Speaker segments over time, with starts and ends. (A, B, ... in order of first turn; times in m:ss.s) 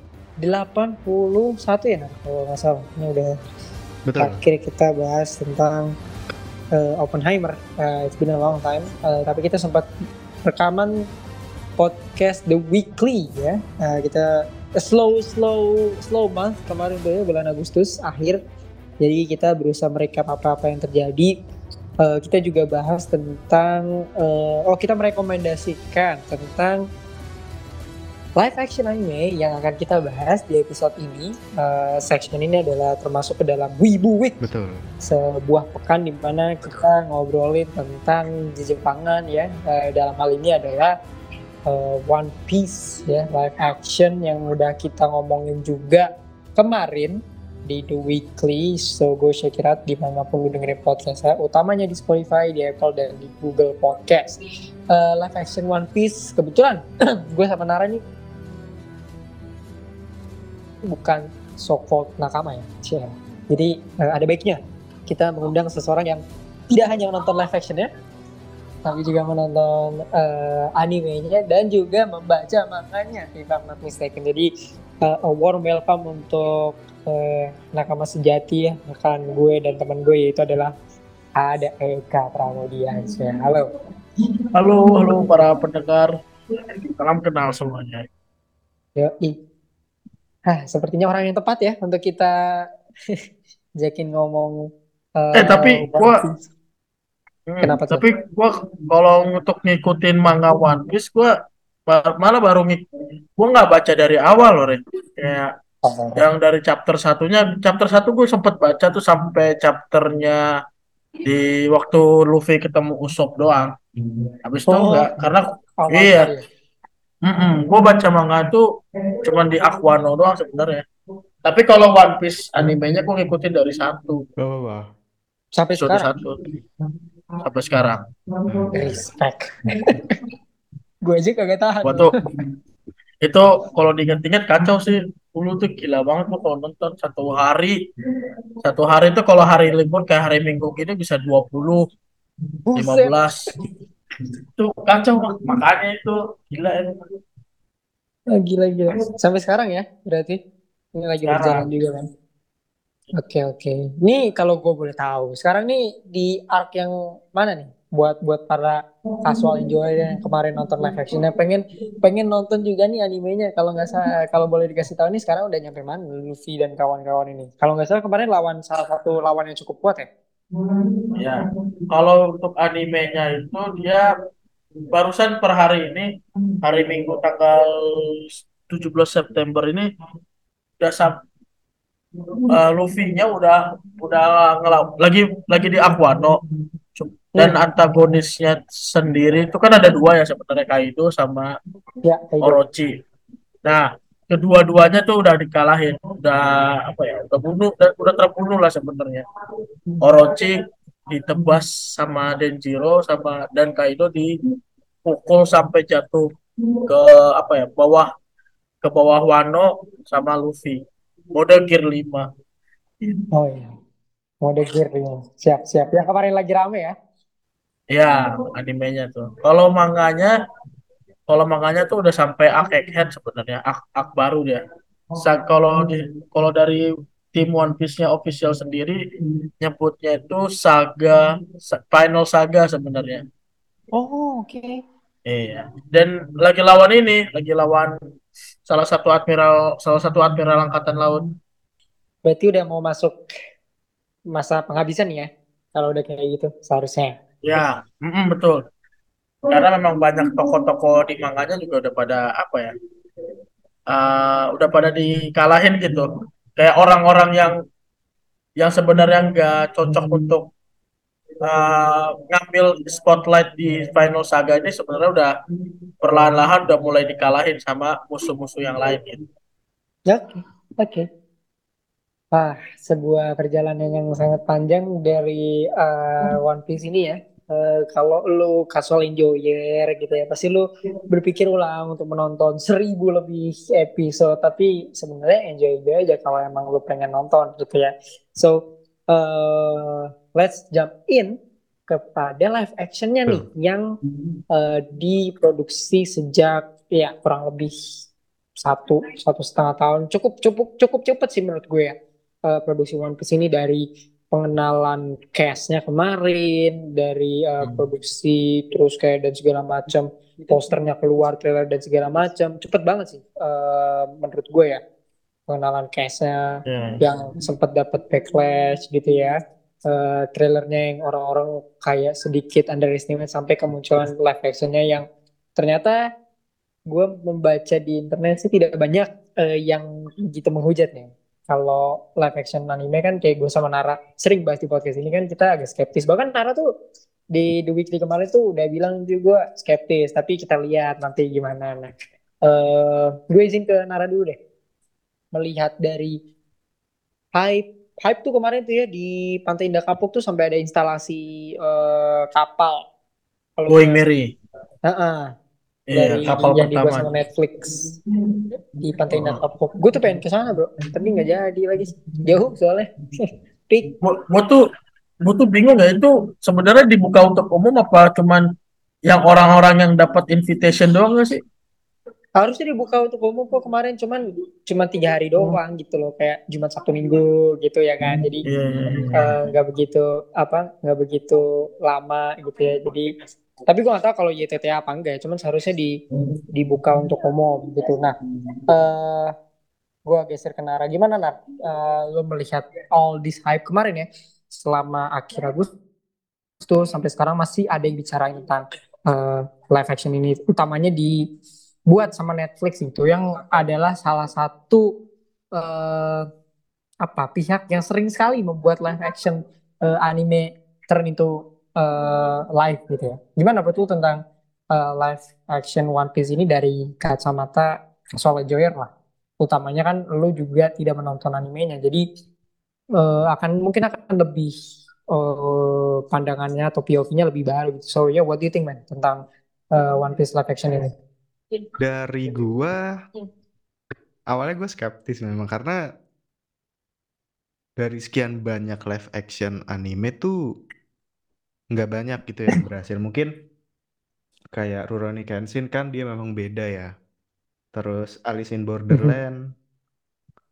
0:00.4-0:03.3 A
0:04.1-0:04.4 B
0:04.2-0:05.9 A
0:06.7-0:09.9 A
0:10.4-0:11.0 A
0:11.8-0:18.4 A
0:19.0-0:21.3 A
0:22.0-0:26.8 A
0:28.4-0:34.4 A
0:34.4-0:34.8 B
0:35.0-0:41.0 A
0:41.7-0:54.4 A
0:54.9-0:58.0 A
1:00.9-1:07.9 A
1:08.8-1:14.5 A
1:15.0-1:20.7 A
1:21.4-1:23.7 A
1:24.5-1:26.1 C
1:27.0-1:28.0 C
1:29.0-1:29.3 A
1:30.5-1:33.2 A
1:33.8-1:36.3 A
1:35.4-1:36.2 C
1:37.5-1:41.3 C
1:37.6-1:38.0 A
1:41.9-1:42.8 C
1:43.4-1:45.5 C
1:45.8-1:46.2 A
1:46.2-1:50.4 C
1:51.2-1:53.7 C
1:54.4-1:56.3 C
1:54.7-1:55.1 A
1:55.8-1:56.4 A
1:57.2-1:58.7 C
1:59.2-2:00.8 C
2:01.4-2:04.2 C
2:04.4-2:04.9 B
2:05.6-2:06.1 A
2:05.8-2:06.4 C
2:07.4-2:08.0 C
2:08.7-2:10.0 A
2:11.0-2:12.1 A
2:11.8-2:12.1 C
2:13.2-2:17.8 C
2:18.6-2:21.8 C
2:22.7-2:23.1 A
2:22.8-2:23.5 C
2:24.6-2:26.9 C
2:28.4-2:30.4 A
2:31.0-2:32.0 A
2:31.3-2:31.6 C
2:33.2-2:50.1 A
2:39.4-2:40.2 C
2:40.9-2:41.1 C
2:50.6-2:54.1 C
2:54.9-2:56.1 C
2:56.6-2:59.9 C
3:00.8-3:01.1 C
3:02.5-3:06.4 C
3:07.0-3:11.5 C
3:12.0-3:12.6 A
3:12.4-3:12.9 C
3:13.6-3:19.2 C
3:20.0-3:24.4 C
3:25.0-3:26.3 C
3:26.8-3:28.1 C
3:28.8-3:30.8 C
3:31.3-3:32.3 C
3:33.3-3:33.7 A
3:34.4-3:36.9 A
3:37.9-3:40.3 C
3:41.3-3:44.6 C
3:45.2-3:49.0 C
3:49.6-3:53.2 C
3:53.9-3:54.8 A
3:55.2-3:57.9 C
3:58.7-4:01.2 C
4:02.2-4:03.2 A
4:04.3-4:07.1 A
4:07.4-4:08.6 C
4:09.5-4:12.7 C
4:13.9-4:17.6 C
4:18.6-4:20.5 C
4:21.4-4:25.3 C
4:26.0-4:29.2 C
4:30.1-4:31.0 A
4:32.3-4:51.4 A
4:51.9-4:53.8 A
4:54.5-4:57.7 A
4:58.6-5:01.9 A
5:02.5-5:14.8 A
5:15.5-5:19.4 A
5:16.6-5:17.0 C
5:19.9-5:25.0 A
5:25.6-5:26.0 A
5:26.9-5:36.6 A
5:37.3-5:41.9 A
5:42.4-5:44.4 A
5:45.3-5:46.2 A
5:47.4-5:52.8 A
5:53.6-5:54.0 A
5:53.7-5:54.3 C
5:54.8-5:55.3 A
5:55.9-5:57.1 C
5:55.9-5:57.8 A
5:58.8-6:03.9 A
5:59.1-5:59.4 C
6:04.0-6:04.6 C
6:05.2-6:08.4 C
6:09.1-6:11.4 C
6:12.4-6:18.4 A
6:18.4-6:19.4 C
6:19.1-6:23.1 A
6:23.7-6:26.0 A
6:26.5-6:28.1 A
6:28.7-6:29.3 A
6:30.1-6:35.7 A
6:36.6-6:41.2 A
6:41.9-6:44.9 A
6:45.6-6:46.2 A
6:47.0-6:54.2 A
6:54.7-7:02.0 A
7:03.0-7:04.5 A
7:05.1-7:09.2 A
7:09.7-7:10.9 A
7:11.8-7:12.8 B
7:14.3-7:15.8 B
7:17.8-7:20.3 B
7:21.7-7:23.3 B
7:24.5-7:26.9 B
7:27.7-7:29.4 B